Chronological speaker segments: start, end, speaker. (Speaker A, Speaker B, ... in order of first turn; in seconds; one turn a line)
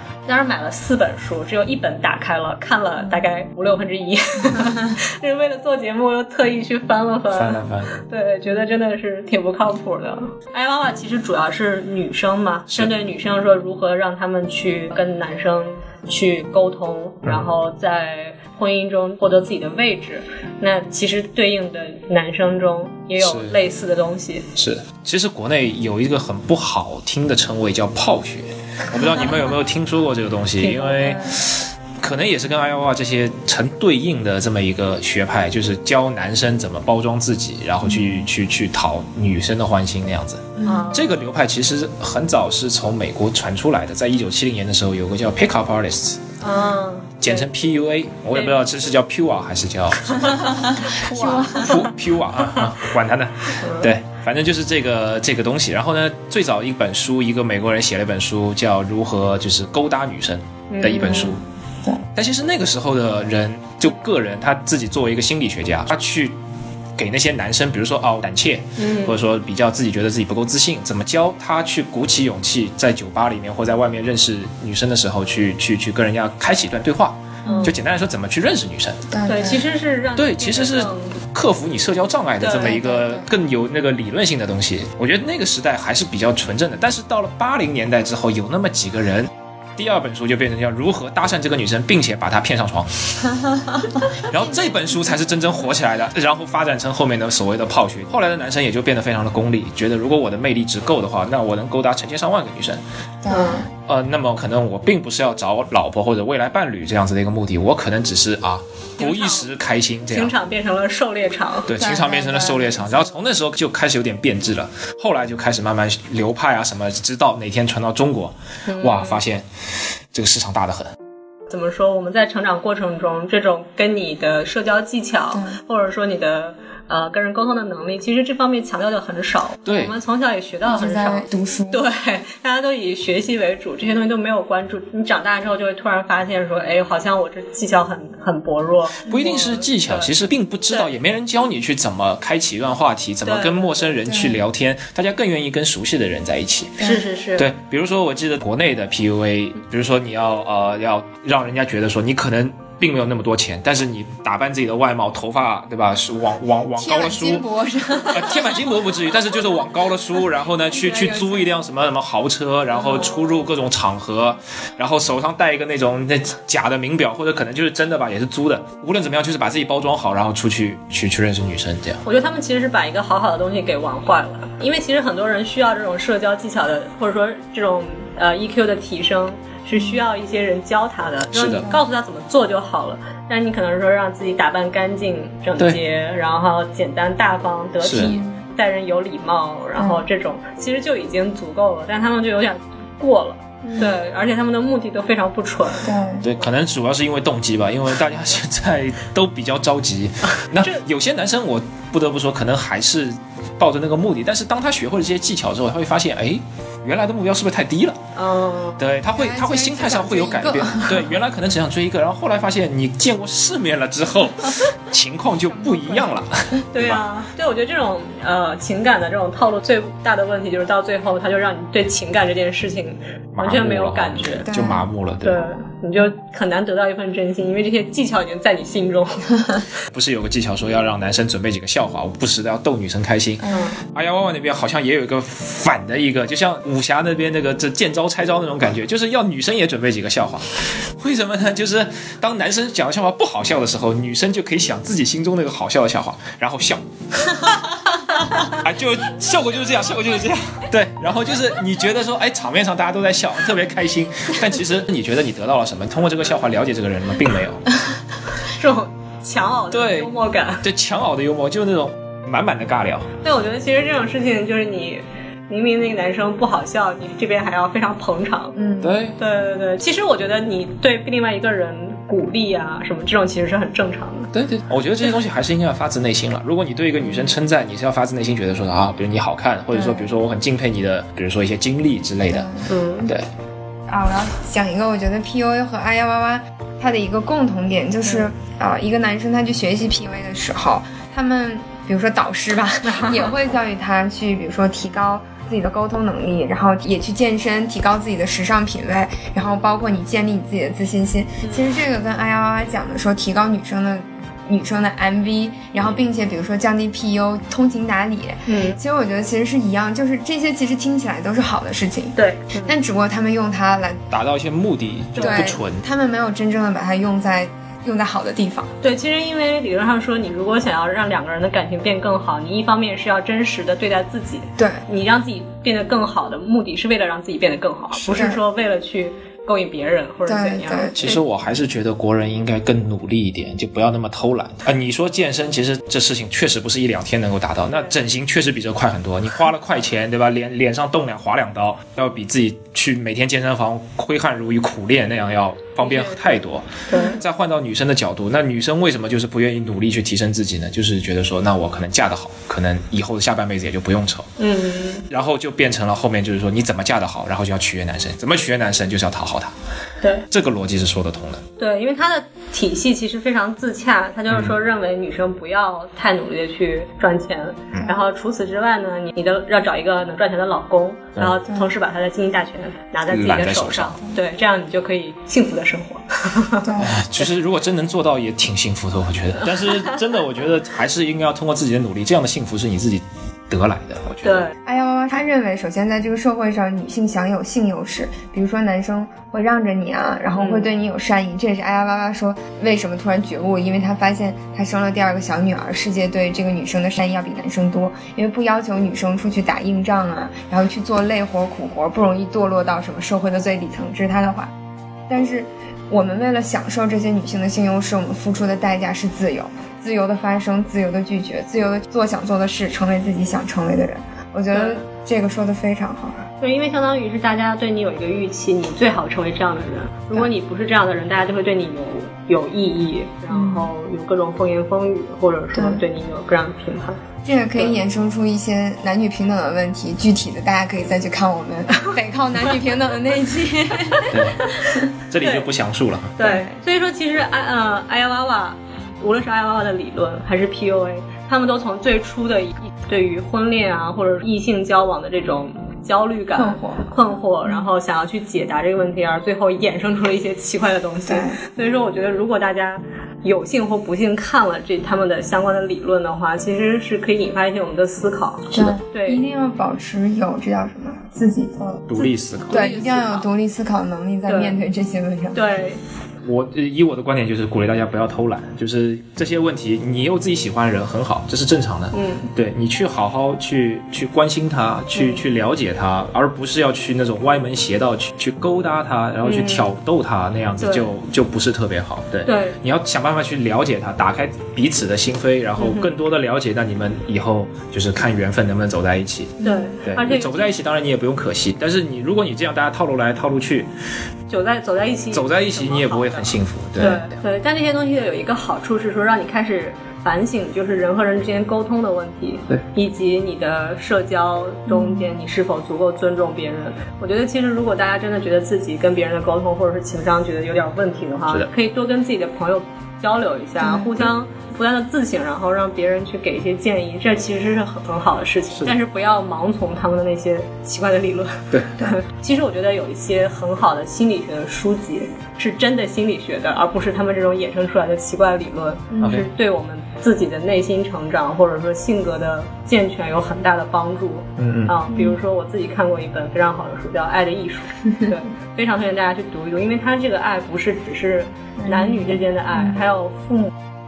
Speaker A: 0.3-24.5
Speaker B: 7.3-7.9
Speaker B: 23.2-23.6
Speaker B: 24.6-46.3
Speaker A: 30.6-31.3
Speaker C: 37.9-38.2
Speaker C: 40.6-40.9
Speaker A: 40.6-41.1
Speaker A: 46.4-47.5
Speaker B: 47.2-50.8
Speaker A: 48.3-48.6
Speaker A: 50.2-51.8
Speaker C: 50.7-51.8
Speaker B: 51.5-61.4
Speaker A: 53.5-53.9
Speaker A: 60.7-61.4
Speaker C: 61.0-62.0
Speaker B: 62.1-66.3
Speaker B: 67.0-79.1
Speaker A: 68.8-69.2
Speaker A: 77.4-77.7
Speaker C: 77.5-77.7
Speaker C: 79.1-79.6
Speaker A: 79.2-81.2
Speaker B: 80.2-93.3
Speaker A: 82.4-82.8
Speaker C: 82.5-83.3
Speaker B: 94.1-102.8
Speaker C: 103.2-103.7
Speaker A: 103.3-103.7
Speaker B: 103.9-110.3
Speaker A: 109.0-109.5
Speaker A: 110.1-111.8
Speaker B: 111.7-119.5
Speaker C: 111.8-113.1
Speaker A: 118.7-119.2
Speaker B: 120.1-120.9
Speaker A: 121.5-140.1
Speaker C: 125.3-125.6
Speaker B: 129.7-129.9
Speaker C: 130.7-131.8
Speaker B: 139.1-157.4
Speaker A: 143.2-143.9
Speaker C: 144.0-144.4
Speaker A: 146.8-147.5
Speaker C: 156.8-158.7
Speaker B: 158.0-172.0
Speaker C: 160.7-161.5
Speaker A: 162.8-163.1
Speaker A: 172.0-195.9
Speaker B: 181.3-181.7
Speaker B: 187.8-188.1
Speaker C: 188.0-188.4
Speaker C: 189.8-190.0
Speaker C: 193.7-193.9
Speaker C: 195.8-196.3
Speaker B: 196.2-208.0
Speaker A: 208.2-208.8
Speaker B: 208.8-217.0
Speaker C: 209.1-211.1
Speaker C: 215.5-216.2
Speaker A: 216.7-224.5
Speaker B: 223.3-225.4
Speaker C: 224.5-224.9
Speaker A: 225.2-229.6
Speaker B: 229.9-257.7
Speaker C: 233.4-233.7
Speaker A: 233.5-233.8
Speaker A: 258.4-260.6
Speaker B: 259.7-263.1
Speaker A: 263.2-268.6
Speaker C: 268.6-268.9
Speaker B: 268.8-269.2
Speaker A: 269.2-274.3
Speaker B: 274.3-282.5
Speaker C: 279.7-280.1
Speaker C: 282.3-282.7
Speaker A: 282.6-283.1
Speaker C: 283.9-314.0
Speaker A: 292.9-293.3
Speaker A: 301.4-301.7
Speaker A: 308.5-308.8
Speaker A: 312.1-312.8
Speaker B: 314.1-315.8
Speaker A: 315.1-315.5
Speaker C: 315.2-318.7
Speaker A: 318.8-331.2
Speaker C: 328.1-328.4
Speaker C: 330.2-331.0
Speaker B: 330.9-354.3
Speaker A: 345.8-346.2
Speaker A: 346.9-347.2
Speaker A: 354.4-355.1
Speaker B: 355.1-359.5
Speaker B: 360.3-361.4
Speaker A: 361.6-376.8
Speaker B: 373.1-374.0
Speaker C: 376.6-377.0
Speaker B: 376.8-384.4
Speaker A: 384.2-384.5
Speaker C: 384.6-404.5
Speaker A: 390.3-390.7
Speaker C: 405.1-416.2
Speaker A: 414.5-414.8
Speaker A: 416.4-427.0
Speaker C: 423.3-423.7
Speaker C: 425.5-425.8
Speaker C: 427.2-434.8
Speaker B: 434.1-434.5
Speaker A: 434.4-435.5
Speaker B: 435.1-436.3
Speaker A: 436.2-459.2
Speaker C: 436.2-436.6
Speaker C: 446.4-446.9
Speaker C: 451.1-451.4
Speaker C: 458.5-465.4
Speaker B: 461.9-462.7
Speaker A: 462.5-463.3
Speaker A: 464.2-464.6
Speaker A: 465.3-465.8
Speaker B: 466.2-493.7
Speaker A: 471.9-472.3
Speaker A: 474.9-475.2
Speaker A: 479.2-479.7
Speaker A: 480.6-480.9
Speaker A: 482.2-482.6
Speaker A: 485.6-485.9
Speaker A: 489.4-490.5
Speaker C: 489.4-489.7
Speaker A: 494.3-543.5
Speaker B: 495.1-497.2
Speaker C: 504.7-505.1
Speaker C: 513.6-513.9
Speaker C: 528.9-529.2
Speaker B: 534.4-534.7
Speaker C: 534.9-535.2
Speaker C: 541.6-542.8